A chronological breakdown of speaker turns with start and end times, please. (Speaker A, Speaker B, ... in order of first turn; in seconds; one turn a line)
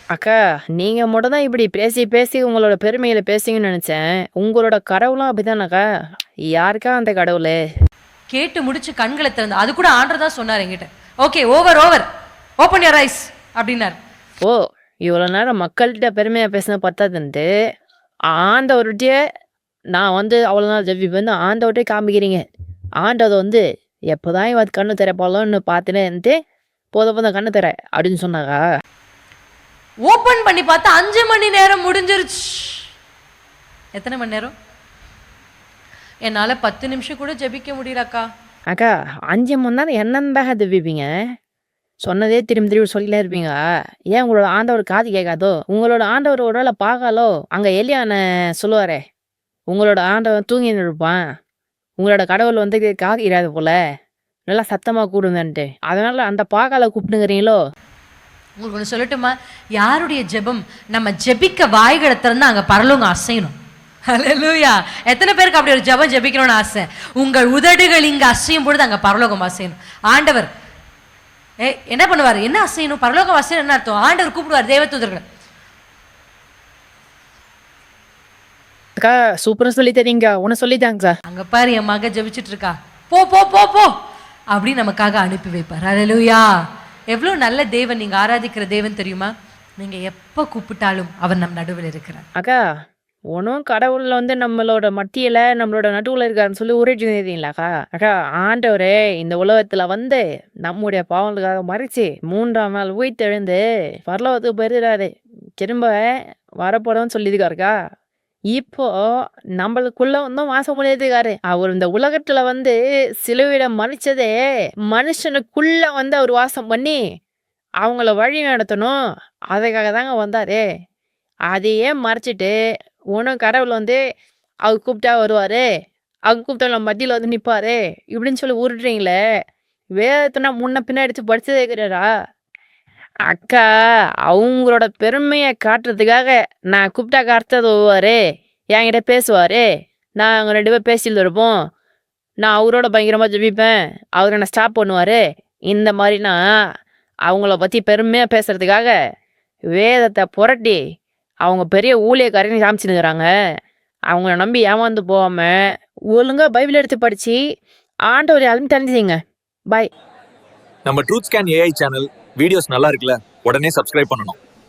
Speaker A: 0.1-5.8
Speaker A: 6.5-7.6
Speaker B: 8.3-12.1
Speaker B: 12.6-13.9
Speaker A: 14.4-17.5
Speaker A: 18.3-19.2
Speaker A: 19.9-22.4
Speaker A: 23.0-26.4
Speaker A: 26.9-28.6
Speaker B: 30.0-32.8
Speaker B: 33.9-34.5
Speaker B: 36.2-38.3
Speaker A: 38.7-41.1
Speaker A: 42.0-43.6
Speaker A: 44.1-49.0
Speaker A: 49.7-51.2
Speaker A: 52.0-53.8
Speaker A: 54.5-57.6
Speaker B: 58.6-63.5
Speaker B: 64.1-70.5
Speaker B: 71.6-75.2
Speaker A: 79.0-81.2
Speaker B: 81.3-83.9
Speaker B: 84.5-86.5
Speaker B: 87.1-92.2
Speaker A: 92.3-92.6
Speaker A: 93.3-107.8
Speaker A: 108.5-114.3
Speaker A: 114.9-117.0
Speaker A: 117.8-119.0
Speaker A: 119.5-120.6
Speaker A: 121.5-122.5
Speaker A: 123.1-124.0
Speaker A: 124.6-125.6
Speaker A: 126.3-129.2
Speaker A: 130.0-132.1
Speaker A: 133.3-133.7
Speaker A: 134.3-138.2
Speaker A: 138.7-141.6
Speaker A: 142.4-146.4
Speaker A: 147.3-148.9
Speaker A: 149.7-150.8
Speaker A: 151.4-153.3
Speaker A: 154.1-157.4
Speaker A: 158.1-159.2
Speaker C: 160.8-164.4